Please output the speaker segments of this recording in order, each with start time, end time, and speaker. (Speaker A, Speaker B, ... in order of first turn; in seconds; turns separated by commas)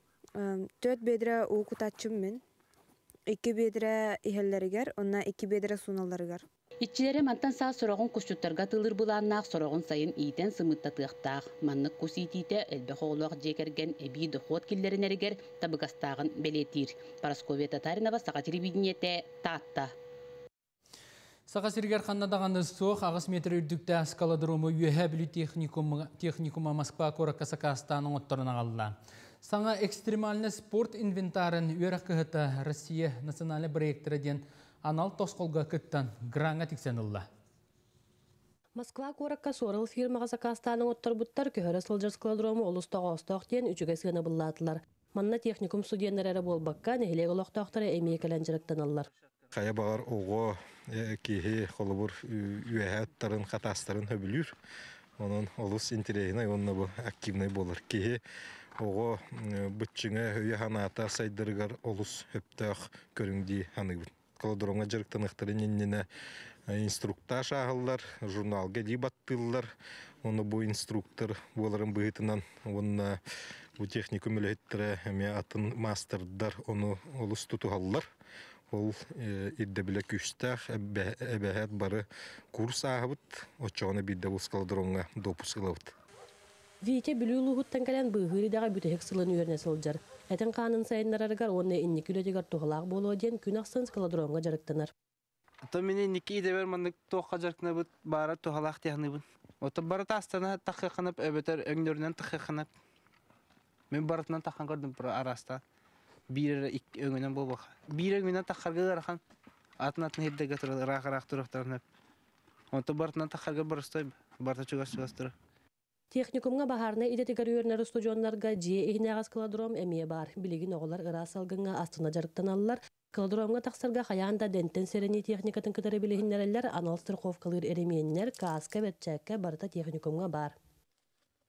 Speaker A: 0.4-2.4, Speaker A: 3.3-6.4, Speaker B: 6.8-19.9, Speaker C: 21.5-37.3, Speaker D: 38.8-49.1, Speaker E: 49.5-54.5, Speaker E: 55.2-58.2, Speaker E: 58.8-66.1, Speaker E: 66.7-69.7, Speaker E: 70.2-73.2, Speaker E: 73.8-78.1, Speaker E: 78.7-85.9, Speaker D: 86.8-94.9, Speaker F: 95.7-102.7, Speaker F: 103.9-105.6, Speaker F: 106.3-109.2, Speaker F: 109.8-111.8, Speaker F: 112.7-115.3, Speaker D: 116.1-130.6